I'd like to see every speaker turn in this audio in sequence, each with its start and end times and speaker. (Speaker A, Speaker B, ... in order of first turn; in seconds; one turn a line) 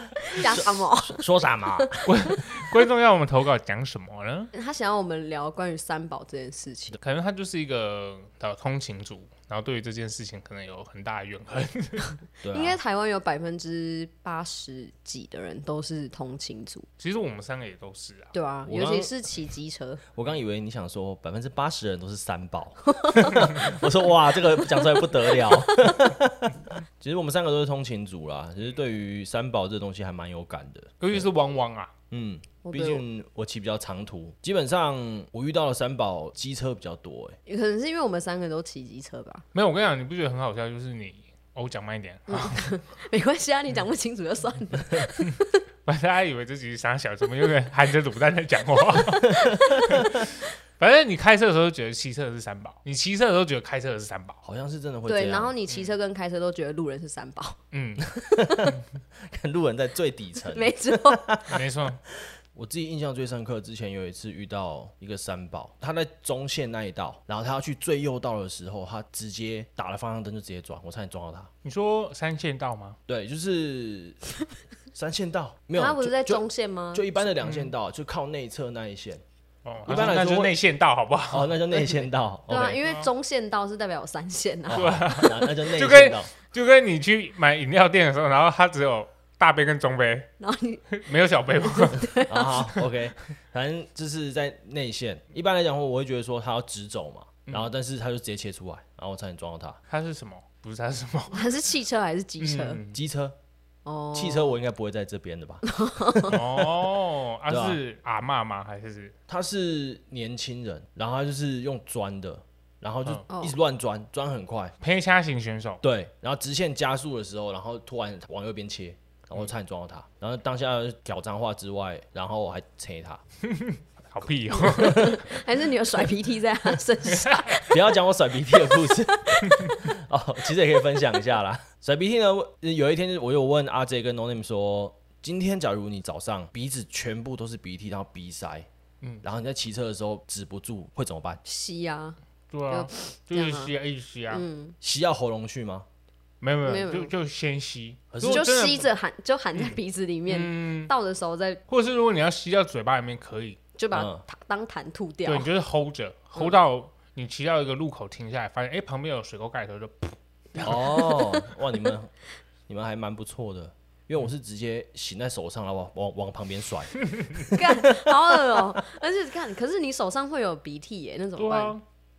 Speaker A: 0.2-1.2
Speaker B: 0.4-2.0
Speaker A: 1.8-2.4
Speaker C: 2.1-4.5
Speaker A: 4.5-7.0
Speaker C: 7.0-12.2
Speaker B: 12.4-12.8
Speaker A: 12.5-16.9
Speaker C: 17.0-18.3
Speaker A: 18.3-20.0
Speaker B: 18.7-19.1
Speaker B: 20.1-31.3
Speaker A: 22.9-23.7
Speaker A: 24.8-26.0
Speaker C: 31.0-31.9
Speaker B: 32.1-37.4
Speaker A: 32.6-33.0
Speaker A: 37.5-39.5
Speaker C: 39.5-42.7
Speaker A: 42.3-45.6
Speaker C: 45.9-54.4
Speaker A: 49.4-50.1
Speaker B: 54.4-55.5
Speaker A: 55.1-57.6
Speaker C: 57.7-58.1
Speaker A: 58.2-58.7
Speaker B: 58.2-58.7
Speaker B: 59.2-71.5
Speaker A: 60.5-61.3
Speaker C: 61.5-62.0
Speaker C: 71.6-73.0
Speaker B: 73.1-74.2
Speaker B: 74.9-76.4
Speaker A: 75.8-77.1
Speaker B: 76.9-79.2
Speaker C: 77.4-77.7
Speaker C: 79.7-81.5
Speaker B: 79.8-80.5
Speaker B: 81.3-82.8
Speaker A: 81.7-85.3
Speaker C: 82.8-83.1
Speaker B: 84.7-86.3
Speaker C: 84.7-90.3
Speaker A: 90.4-90.9
Speaker C: 90.9-92.1
Speaker A: 91.6-92.6
Speaker B: 92.3-99.8
Speaker C: 99.9-101.4
Speaker A: 101.3-102.8
Speaker C: 102.4-103.0
Speaker B: 102.9-103.4
Speaker A: 103.9-104.5
Speaker B: 104.1-106.7
Speaker A: 105.6-106.4
Speaker C: 106.3-109.1
Speaker B: 107.5-107.8
Speaker B: 109.3-114.8
Speaker A: 113.3-113.5
Speaker C: 114.8-115.8
Speaker B: 115.8-123.2
Speaker C: 123.5-125.3
Speaker A: 124.6-127.8
Speaker B: 124.7-125.1
Speaker C: 127.1-127.6
Speaker B: 127.7-138.7
Speaker A: 128.5-129.9
Speaker B: 139.2-141.4
Speaker A: 141.4-143.7
Speaker C: 142.5-144.4
Speaker A: 144.3-144.8
Speaker B: 144.8-145.9
Speaker C: 146.4-148.9
Speaker A: 146.7-147.1
Speaker B: 148.1-148.5
Speaker A: 148.2-151.6
Speaker C: 149.6-150.9
Speaker C: 151.7-153.6
Speaker A: 153.8-155.5
Speaker B: 153.9-154.2
Speaker C: 155.3-160.9
Speaker A: 160.6-161.4
Speaker B: 160.7-162.1
Speaker B: 162.7-168.0
Speaker A: 167.5-171.8
Speaker C: 171.4-171.8